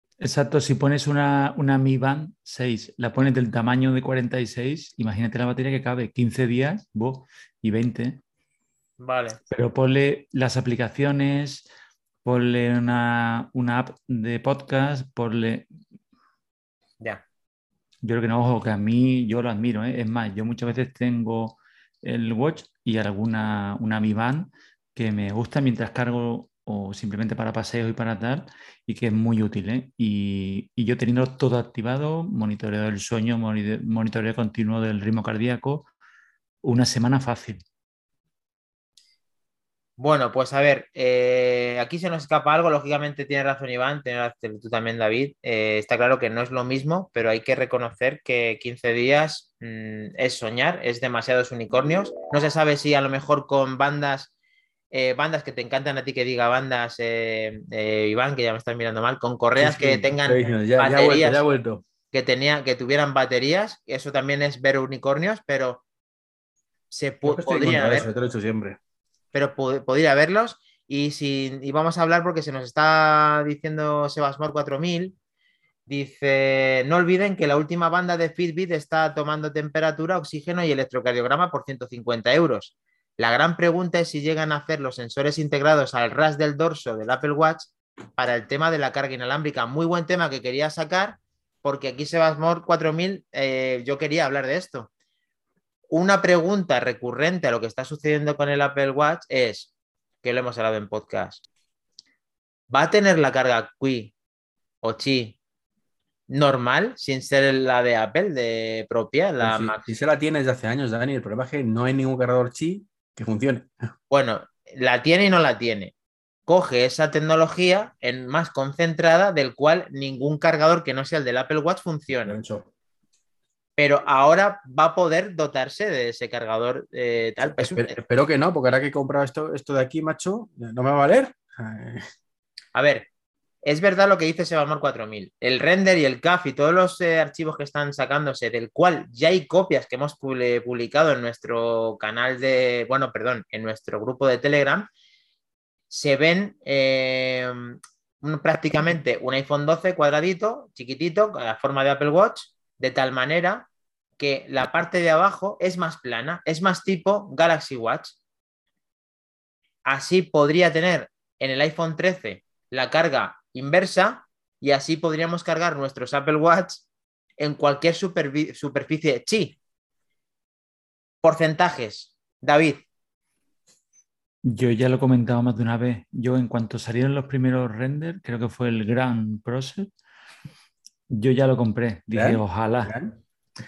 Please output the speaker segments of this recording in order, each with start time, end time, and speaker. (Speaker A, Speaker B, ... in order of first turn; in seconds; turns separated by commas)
Speaker A: 0.2-8.2, Speaker B: 9.0-9.4, Speaker A: 9.5-11.7, Speaker A: 12.2-15.7, Speaker A: 18.0-35.9, Speaker A: 36.6-37.6, Speaker B: 40.0-54.3, Speaker B: 54.9-61.4, Speaker C: 59.6-61.8, Speaker B: 62.1-65.8, Speaker B: 66.9-68.1, Speaker C: 67.2-68.8, Speaker B: 69.3-75.1, Speaker B: 75.9-94.9, Speaker B: 95.9-99.7, Speaker B: 100.2-101.4, Speaker B: 102.7-104.1, Speaker B: 104.8-105.4, Speaker B: 106.3-109.8, Speaker C: 109.4-113.7, Speaker B: 114.1-115.9, Speaker B: 116.5-122.4, Speaker C: 122.2-122.7, Speaker B: 123.8-128.0, Speaker C: 127.4-132.1, Speaker B: 132.7-133.1, Speaker B: 133.6-144.9, Speaker B: 145.9-158.2, Speaker B: 159.8-166.8, Speaker B: 167.4-169.6, Speaker B: 171.2-172.8, Speaker A: 174.4-179.9, Speaker A: 181.1-183.0, Speaker C: 182.1-183.1